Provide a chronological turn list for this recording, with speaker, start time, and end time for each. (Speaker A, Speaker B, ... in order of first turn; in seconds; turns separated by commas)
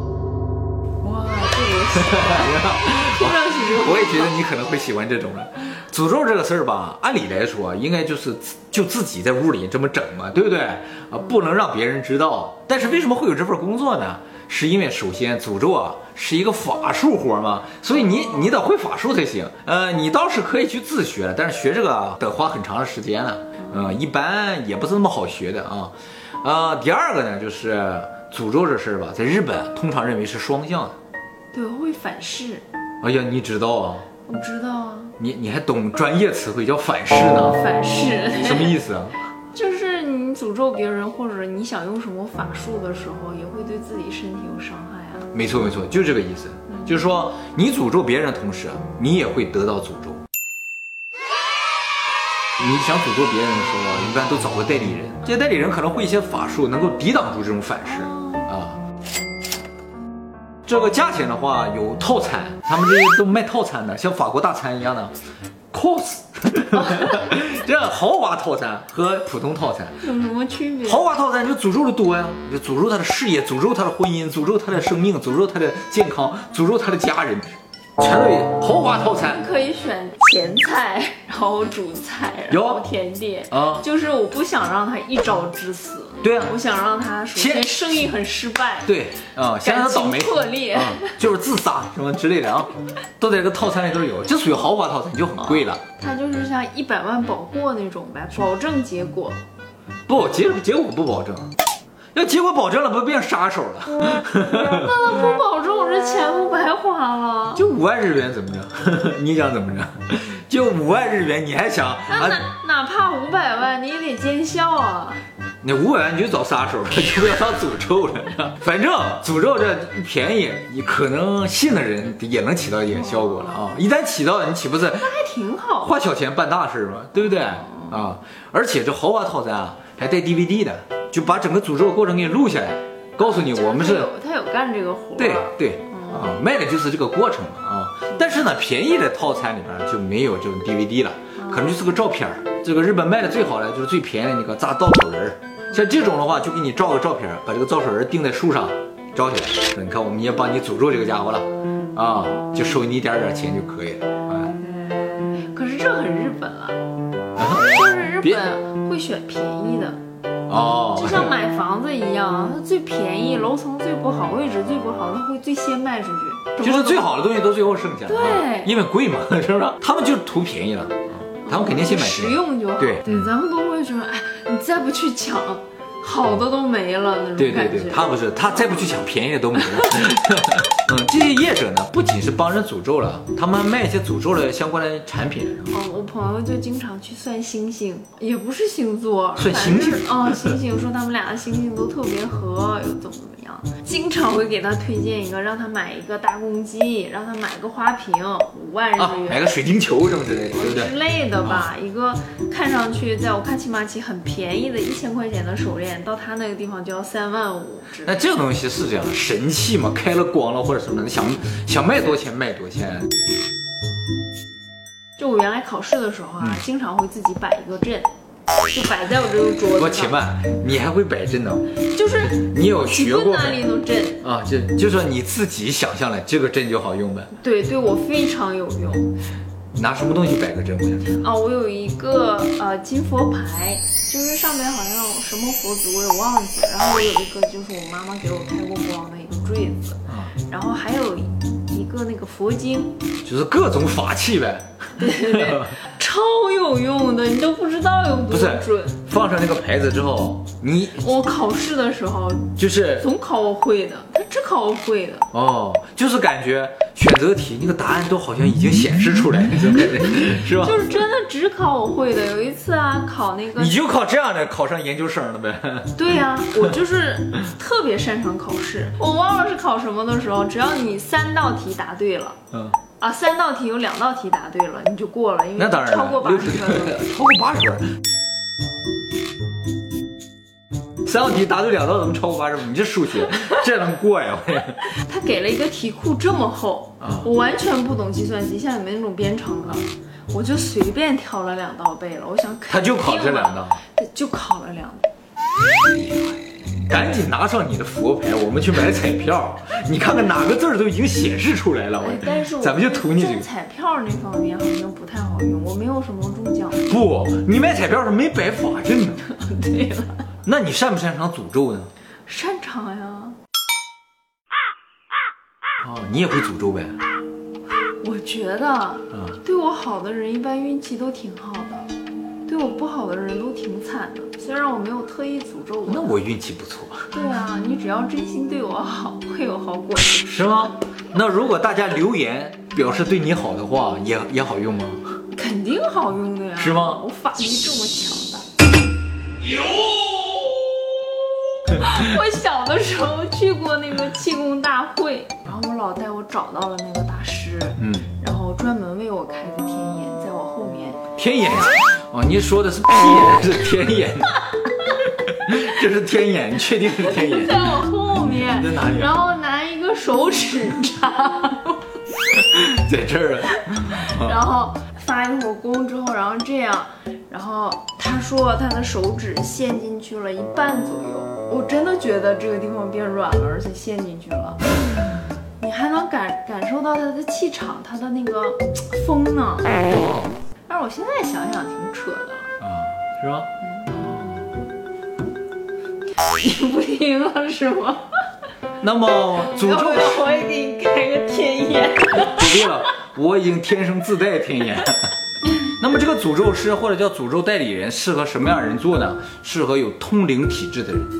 Speaker A: 1.0-4.3, Speaker B: 1.9-30.9, Speaker A: 31.5-32.6, Speaker B: 33.0-34.1, Speaker A: 34.2-35.2, Speaker B: 35.2-37.6, Speaker A: 37.3-38.8, Speaker B: 38.4-39.2, Speaker A: 39.5-45.3, Speaker B: 45.3-50.2, Speaker B: 52.6-58.8, Speaker A: 57.8-58.5, Speaker B: 60.6-65.1, Speaker B: 65.7-70.0, Speaker A: 70.0-71.0, Speaker B: 70.8-79.4, Speaker A: 79.2-88.9, Speaker B: 82.5-82.8, Speaker B: 83.5-83.8, Speaker B: 86.2-86.5, Speaker B: 87.3-88.0, Speaker B: 88.8-95.8, Speaker A: 89.6-91.2, Speaker A: 95.4-99.4, Speaker B: 100.1-101.5, Speaker B: 102.1-104.9, Speaker A: 104.5-107.6, Speaker B: 107.5-112.4, Speaker A: 112.1-115.2, Speaker B: 115.6-125.1, Speaker A: 122.9-123.7, Speaker A: 125.0-126.0, Speaker B: 125.8-134.1, Speaker A: 127.4-128.0, Speaker A: 133.2-136.4, Speaker B: 135.2-154.5, Speaker A: 141.4-141.7, Speaker A: 154.4-156.8, Speaker B: 157.4-157.7, Speaker A: 157.5-160.0, Speaker B: 160.5-161.3, Speaker A: 160.9-167.2, Speaker B: 166.6-173.2, Speaker A: 168.1-168.7, Speaker A: 171.4-178.7, Speaker B: 177.4-185.8, Speaker A: 179.8-180.2, Speaker A: 185.7-199.4, Speaker B: 189.4-190.6, Speaker B: 199.0-200.9, Speaker A: 200.5-208.2, Speaker B: 208.0-213.1, Speaker A: 215.2-218.1, Speaker A: 218.7-220.2, Speaker B: 219.7-223.6, Speaker A: 221.8-224.2, Speaker B: 224.2-227.3, Speaker A: 227.3-229.1, Speaker B: 229.7-231.2, Speaker A: 231.2-243.0, Speaker B: 240.1-240.3, Speaker B: 243.2-245.7, Speaker A: 245.0-249.0, Speaker B: 248.3-251.0, Speaker A: 250.9-255.3, Speaker B: 252.6-253.1, Speaker B: 255.3-260.8, Speaker A: 260.4-263.7, Speaker B: 263.6-266.1, Speaker A: 265.9-272.4, Speaker A: 273.0-276.9, Speaker B: 275.6-277.9, Speaker B: 281.0-284.9, Speaker A: 284.9-295.1, Speaker B: 287.0-287.3, Speaker B: 292.7-293.8, Speaker B: 295.9-303.5, Speaker A: 302.0-306.9, Speaker B: 306.9-309.2, Speaker A: 309.2-310.2, Speaker B: 310.4-311.9, Speaker A: 312.3-313.4, Speaker B: 315.8-317.0, Speaker A: 318.0-321.9, Speaker A: 322.4-326.2, Speaker B: 325.9-327.1, Speaker A: 327.1-330.2, Speaker B: 330.2-335.1, Speaker A: 335.3-338.5, Speaker B: 336.6-337.0, Speaker A: 341.7-351.8, Speaker B: 347.8-348.1, Speaker B: 351.2-354.4, Speaker B: 355.2-357.8, Speaker A: 356.8-361.9, Speaker B: 358.4-359.1, Speaker B: 362.4-364.4, Speaker A: 363.9-374.6, Speaker A: 375.6-379.9, Speaker B: 379.9-380.3, Speaker A: 380.7-382.5, Speaker B: 382.6-384.4, Speaker A: 383.6-384.1, Speaker A: 386.2-388.2, Speaker B: 388.8-390.2, Speaker A: 389.3-392.9, Speaker B: 392.1-395.1, Speaker B: 395.7-401.1